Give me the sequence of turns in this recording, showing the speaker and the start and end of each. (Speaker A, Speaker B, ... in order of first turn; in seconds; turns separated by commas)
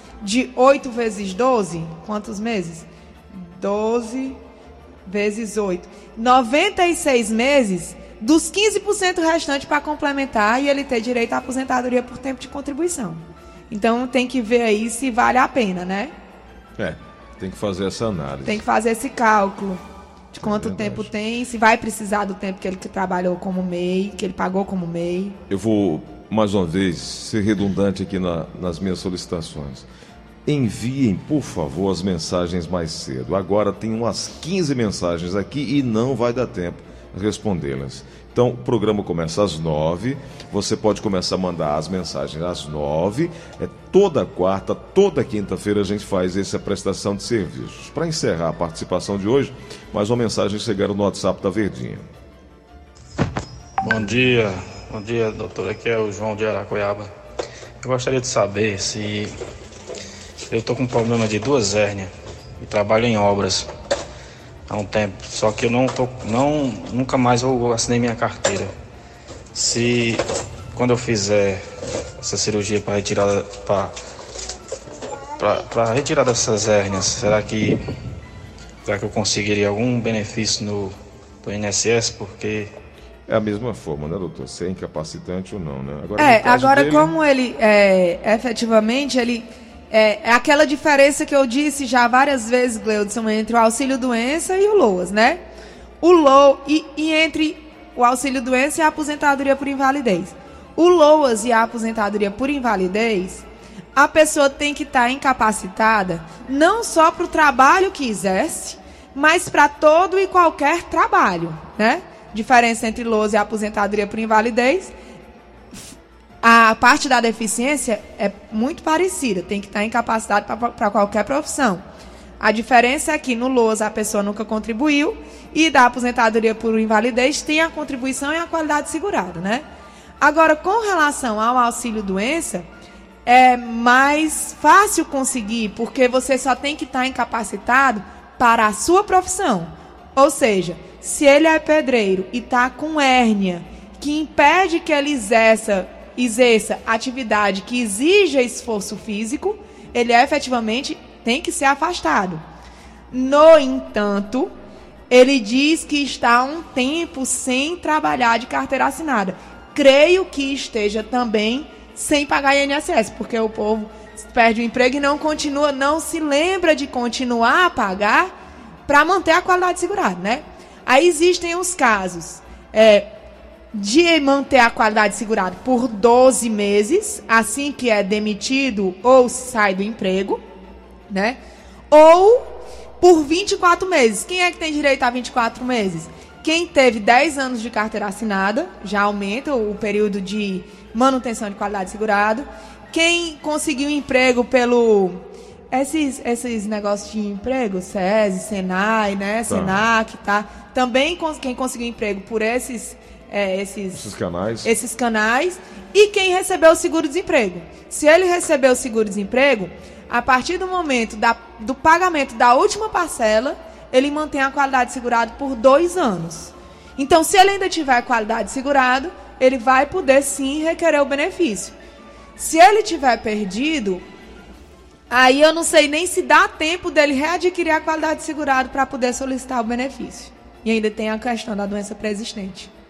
Speaker A: 0.2-4.4, Speaker A: 5.0-16.1, Speaker B: 16.8-18.6, Speaker A: 18.4-19.8, Speaker A: 20.3-25.4, Speaker B: 20.4-21.1, Speaker B: 25.5-29.9, Speaker B: 30.4-52.0, Speaker C: 53.8-57.1, Speaker C: 57.8-59.3, Speaker C: 60.5-63.7, Speaker C: 64.7-68.7, Speaker C: 69.5-71.6, Speaker C: 72.2-73.9, Speaker C: 75.4-77.8, Speaker C: 78.8-82.7, Speaker B: 83.3-87.1, Speaker A: 86.2-95.4, Speaker A: 96.0-114.9, Speaker A: 116.4-121.8, Speaker A: 122.4-129.6, Speaker A: 130.2-132.7, Speaker A: 133.2-152.4, Speaker A: 153.1-154.5, Speaker A: 155.1-168.3, Speaker A: 168.9-173.1, Speaker A: 173.7-180.4, Speaker A: 181.1-181.4, Speaker A: 181.9-204.0, Speaker B: 199.5-199.8, Speaker B: 203.9-204.7, Speaker A: 204.6-221.7, Speaker A: 222.4-224.0, Speaker A: 225.1-232.7